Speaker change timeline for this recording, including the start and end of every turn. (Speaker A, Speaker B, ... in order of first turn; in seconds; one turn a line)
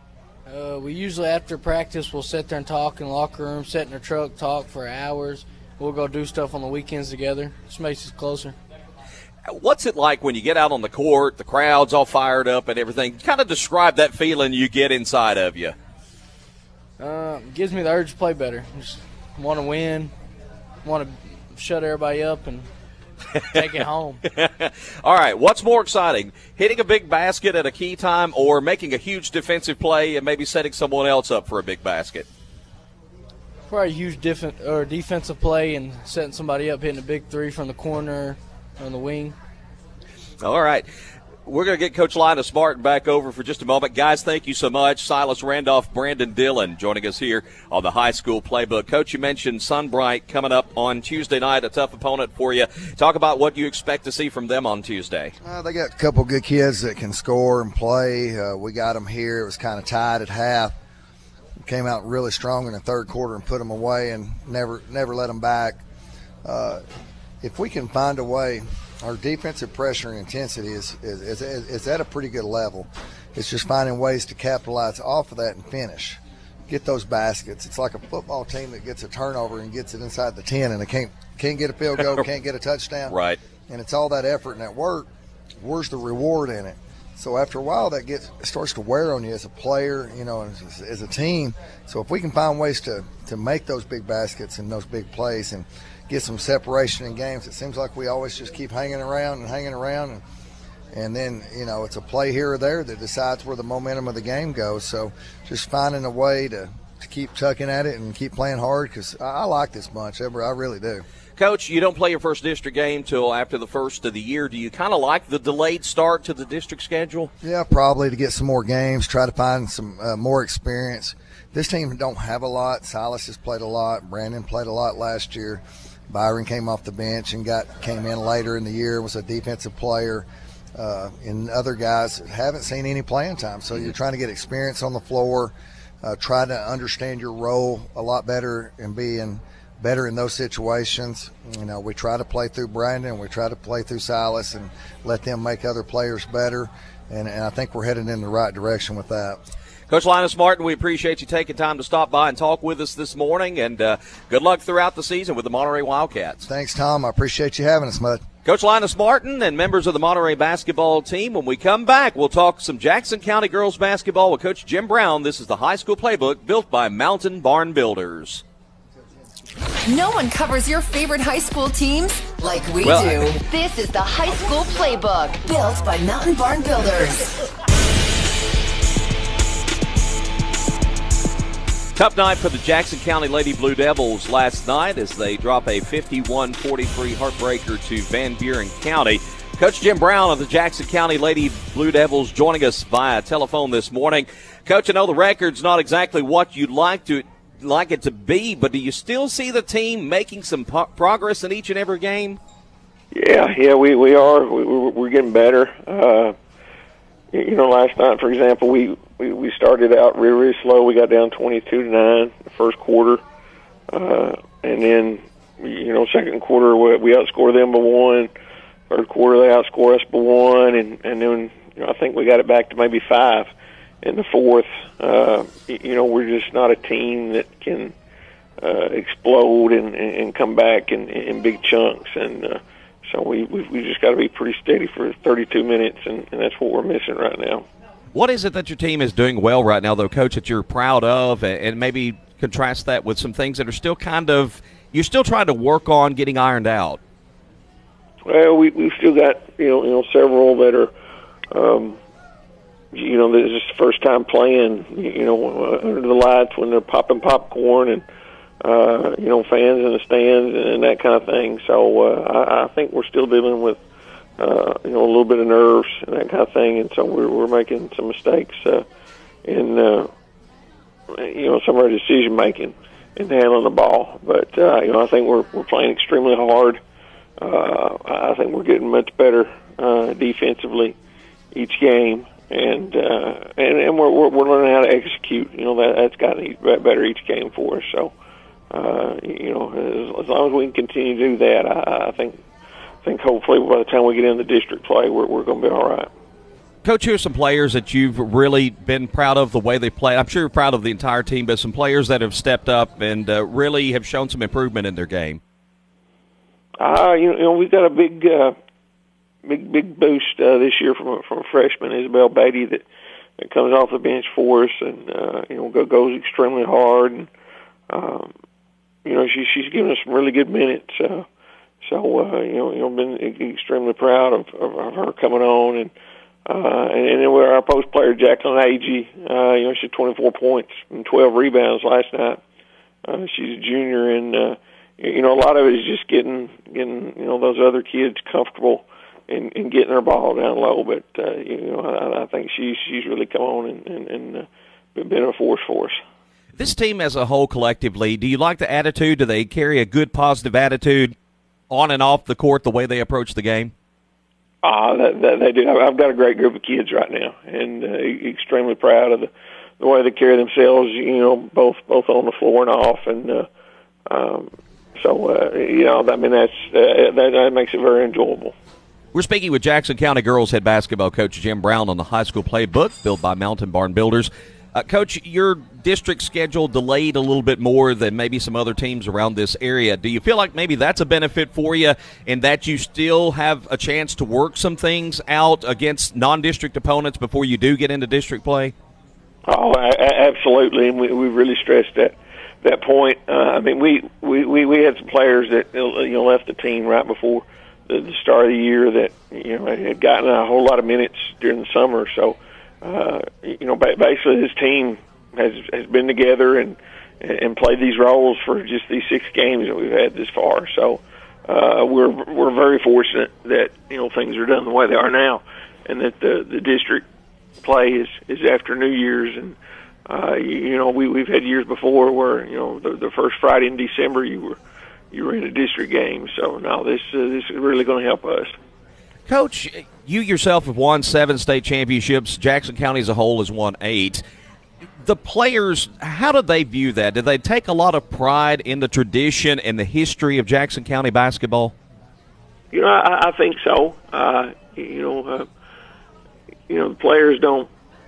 Speaker A: 0.5-8.6
Speaker B: 9.5-15.8
Speaker A: 17.0-20.1
Speaker A: 20.8-22.7
Speaker A: 23.4-24.2
Speaker B: 24.3-32.3
Speaker A: 33.7-39.4
Speaker B: 40.4-40.9
Speaker B: 41.5-55.3
Speaker C: 55.4-60.7
Speaker C: 61.6-65.8
Speaker C: 66.4-66.8
Speaker C: 67.4-83.2
Speaker B: 83.1-83.4
Speaker C: 83.7-85.1
Speaker C: 85.6-100.2
Speaker C: 100.9-111.0
Speaker B: 111.4-117.3
Speaker C: 117.4-149.4
Speaker B: 149.9-156.4
Speaker C: 156.4-158.2
Speaker B: 158.4-168.4
Speaker D: 169.9-177.3
Speaker B: 172.8-173.3
Speaker B: 182.0-202.4
Speaker E: 203.1-206.4
Speaker E: 207.3-213.2
Speaker E: 213.9-218.3
Speaker E: 218.9-223.5
Speaker E: 224.0-227.9
Speaker E: 228.6-237.7
Speaker B: 238.1-247.0
Speaker E: 248.2-250.9
Speaker E: 251.5-252.0
Speaker E: 252.9-258.0
Speaker E: 258.6-263.8
Speaker E: 264.4-268.9
Speaker E: 269.5-270.1
Speaker E: 271.1-276.8
Speaker E: 277.4-280.9
Speaker E: 281.5-288.1
Speaker E: 288.7-292.4
Speaker E: 293.0-296.1
Speaker B: 296.8-305.4
Speaker E: 306.8-308.6
Speaker E: 309.4-312.8
Speaker E: 313.4-317.3
Speaker E: 317.9-318.3
Speaker E: 319.1-321.3
Speaker E: 321.8-325.9
Speaker E: 326.5-332.4
Speaker E: 333.1-346.0
Speaker B: 346.6-351.1
Speaker B: 351.7-353.7
Speaker E: 354.6-363.5
Speaker E: 364.1-368.5
Speaker B: 369.1-388.7
Speaker E: 389.5-417.1
Speaker E: 417.6-424.6
Speaker E: 425.1-428.6
Speaker B: 429.3-434.2
Speaker B: 435.0-441.7
Speaker E: 442.7-445.5
Speaker E: 446.7-447.7